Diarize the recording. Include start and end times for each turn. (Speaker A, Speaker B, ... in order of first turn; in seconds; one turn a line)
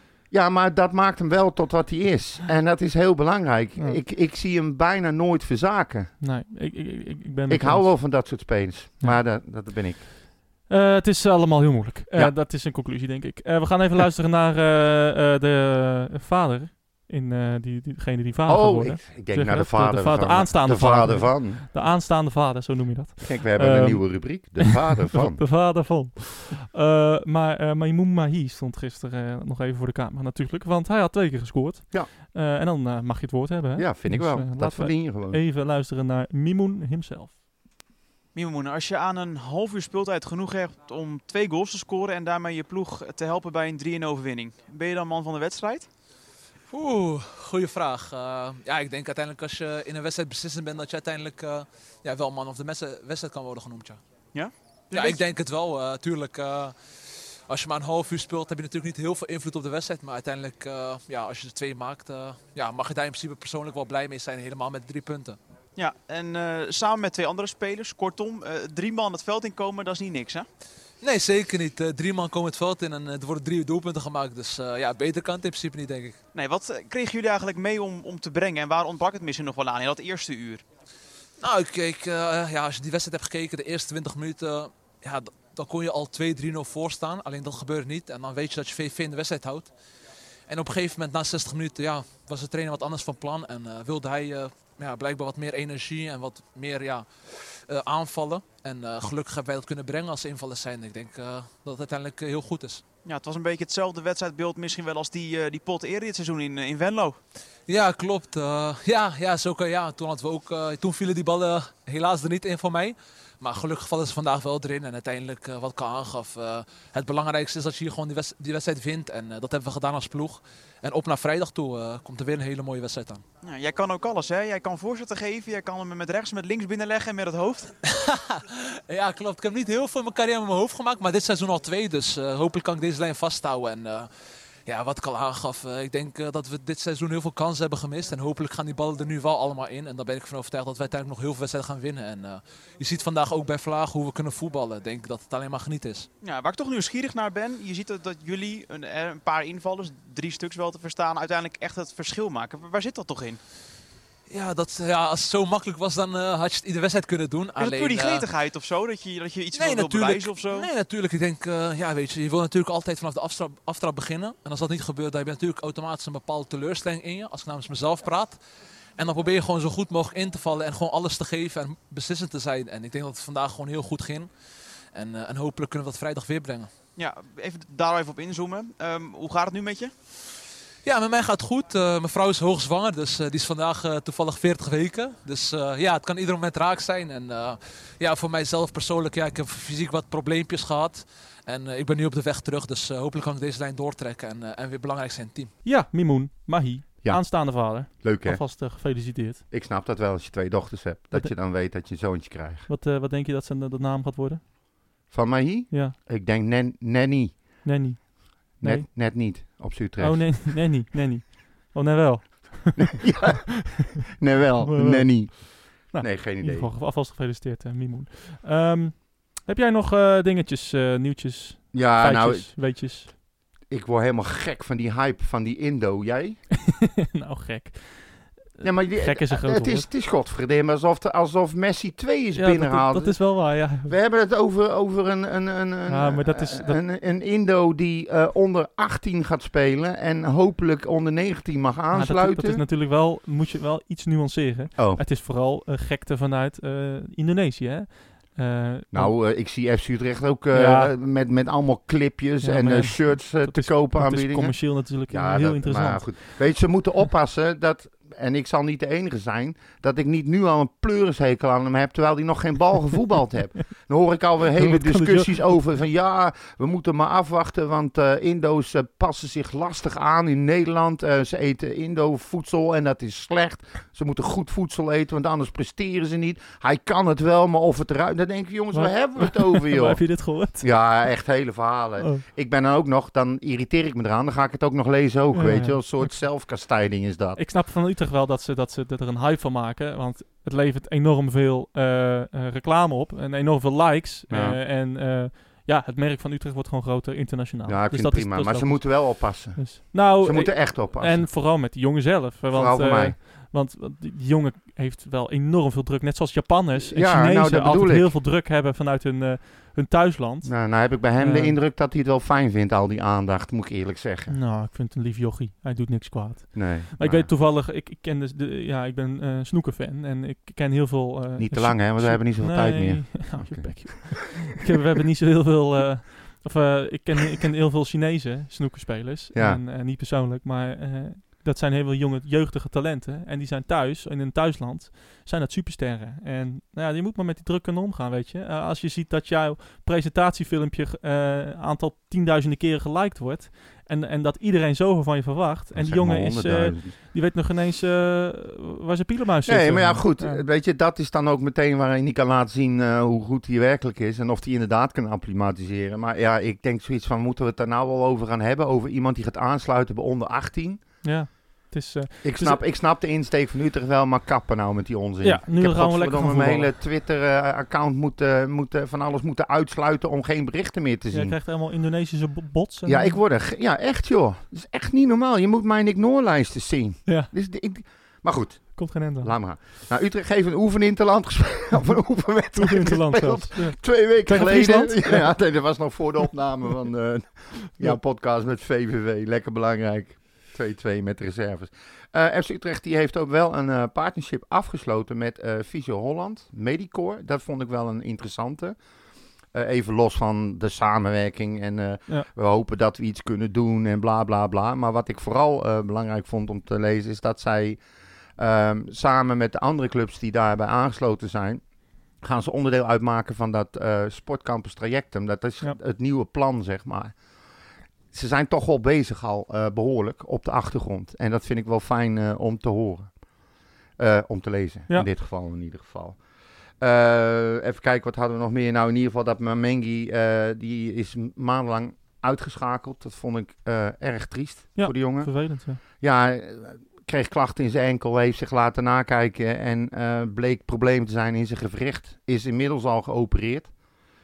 Speaker A: 0.3-6.1
Speaker B: 6.2-8.2
Speaker A: 7.5-10.0
Speaker B: 10.7-37.3
Speaker A: 18.5-21.6
Speaker A: 23.2-25.4
Speaker A: 33.8-35.4
Speaker C: 38.3-45.9
Speaker D: 46.7-54.0
Speaker C: 54.3-55.2
Speaker D: 54.9-56.7
Speaker D: 57.5-65.4
Speaker C: 65.8-70.5
Speaker D: 71.0-76.2
Speaker C: 76.3-80.6
Speaker D: 81.4-89.7
Speaker D: 90.5-102.8
Speaker C: 103.0-107.2
Speaker D: 107.7-123.2
Speaker C: 123.4-127.7
Speaker D: 127.8-134.1
Speaker D: 134.7-146.1
Speaker C: 146.2-153.4
Speaker D: 154.3-158.2
Speaker C: 157.6-160.7
Speaker D: 159.5-168.4
Speaker D: 169.0-174.3
Speaker D: 174.9-176.7
Speaker C: 176.9-179.9
Speaker D: 180.8-195.5
Speaker B: 195.6-199.4
Speaker A: 197.0-198.4
Speaker A: 199.5-202.7
Speaker B: 202.7-204.4
Speaker A: 205.1-207.6
Speaker B: 205.7-205.9
Speaker B: 207.6-208.9
Speaker A: 208.6-210.6
Speaker B: 210.0-213.3
Speaker A: 212.8-216.7
Speaker B: 214.6-223.1
Speaker A: 221.7-222.7
Speaker A: 223.7-226.4
Speaker B: 226.6-229.9
Speaker A: 228.6-242.6
Speaker B: 232.3-233.9
Speaker B: 235.9-236.8
Speaker B: 241.9-249.2
Speaker A: 244.8-245.0
Speaker A: 248.9-287.4
Speaker B: 250.5-250.9
Speaker B: 252.4-256.3
Speaker B: 264.6-265.7
Speaker B: 278.7-281.1
Speaker B: 282.0-282.2
Speaker B: 285.3-286.3
Speaker B: 287.4-311.6
Speaker A: 294.3-294.6
Speaker A: 297.6-301.3
Speaker A: 302.5-303.1
Speaker A: 306.8-308.1
Speaker A: 310.4-314.3
Speaker B: 314.3-350.4
Speaker A: 316.5-317.3
Speaker A: 321.4-324.2
Speaker A: 329.3-329.6
Speaker A: 345.7-346.9
Speaker A: 349.4-360.9
Speaker B: 361.0-362.6
Speaker A: 362.2-371.4
Speaker B: 365.2-366.8
Speaker B: 371.1-373.2
Speaker A: 372.9-398.8
Speaker B: 377.1-377.3
Speaker B: 378.7-379.3
Speaker B: 381.7-385.6
Speaker A: 399.5-407.8
Speaker A: 408.4-411.6
Speaker A: 412.2-417.2
Speaker A: 418.1-423.3
Speaker A: 424.0-426.2
Speaker A: 426.8-443.7
Speaker B: 434.8-435.8